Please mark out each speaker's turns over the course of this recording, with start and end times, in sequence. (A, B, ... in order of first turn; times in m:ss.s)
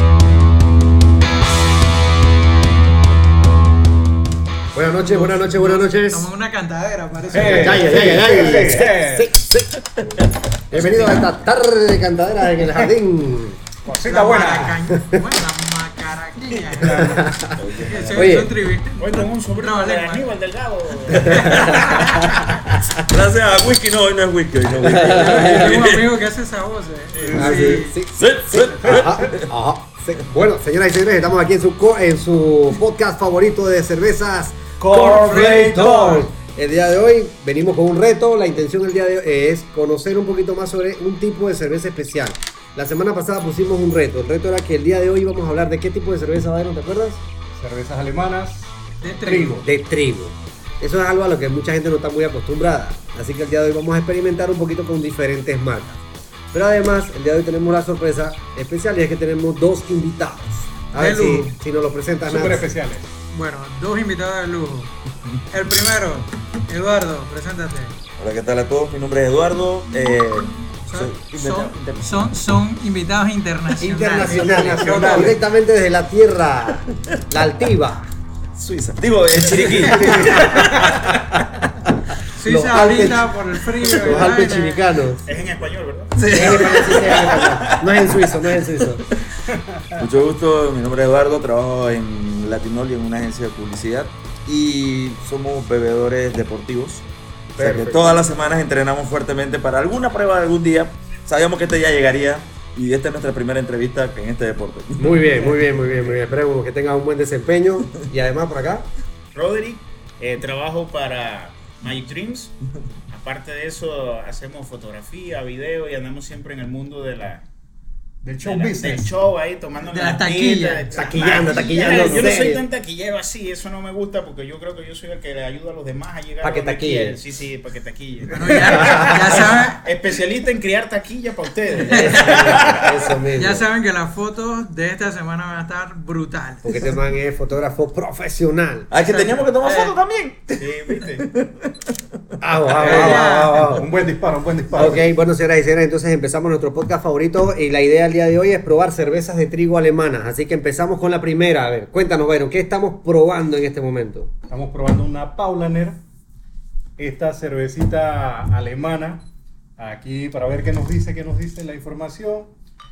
0:04.7-0:06.3 A
0:04.9-0:08.1 B
0:07.3-0:09.3 C
0:07.4-0:10.2 A
0:10.7-0:13.6 A
0:13.8-0:14.3 D
0:13.9-0:14.8 C
0:14.0-0:20.3 B
0:14.6-0:15.2 A
0:16.7-0:17.3 C
0:16.8-0:18.5 A
0:17.6-0:18.3 E
0:19.0-0:22.0 D
0:21.2-0:22.3 B
0:21.2-0:26.1 E
0:21.4-0:22.5 A
0:24.8-0:25.8 A
0:25.0-0:28.0 B
0:27.1-0:27.5 E
0:27.2-0:27.8 C
0:27.3-0:47.2 A
0:28.2-0:29.5 E
0:28.8-0:29.2 C
0:34.8-0:36.0 C
0:34.9-0:36.3 B
0:47.5-0:49.6 C
0:49.0-0:49.6 B
0:49.6-1:02.7 A
1:00.9-1:01.6 B
1:02.2-1:03.1 C
1:03.3-1:04.9 B
1:05.5-1:08.0 B
1:08.2-1:12.2 E
1:10.8-1:15.4 B
1:13.8-1:18.1 A
1:14.2-1:15.4 C
1:18.5-1:21.4 E
1:19.8-1:21.2 A
1:19.9-1:20.5 C
1:22.3-1:24.9 B
1:22.4-1:23.3 A
1:23.8-1:25.3 A
1:25.2-1:26.4 D
1:26.2-1:29.2 E
1:26.3-1:29.0 A
1:29.5-1:30.0 C
1:29.9-1:37.0 E
1:37.6-1:38.3 A
1:37.6-1:45.2 E
1:45.0-1:48.9 A
1:49.3-1:52.5 D
1:53.1-1:57.4 D
1:58.2-1:59.1 C
1:58.4-2:12.9 D
1:59.8-2:01.0 B
2:00.9-2:02.6 A
2:01.8-2:02.3 C
2:06.4-2:07.2 A
2:08.3-2:09.8 B
2:08.7-2:09.2 A
2:11.9-2:13.7 A
2:11.9-2:16.8 B
2:16.6-2:18.9 A
2:18.9-2:21.9 E
2:19.0-2:20.0 B
2:20.6-2:21.3 D
2:22.4-2:23.9 A
2:22.7-2:23.8 B
2:22.8-2:25.0 C
2:24.7-2:34.3 A
2:34.4-2:36.0 C
2:37.0-2:39.2 C
2:39.8-2:42.5 C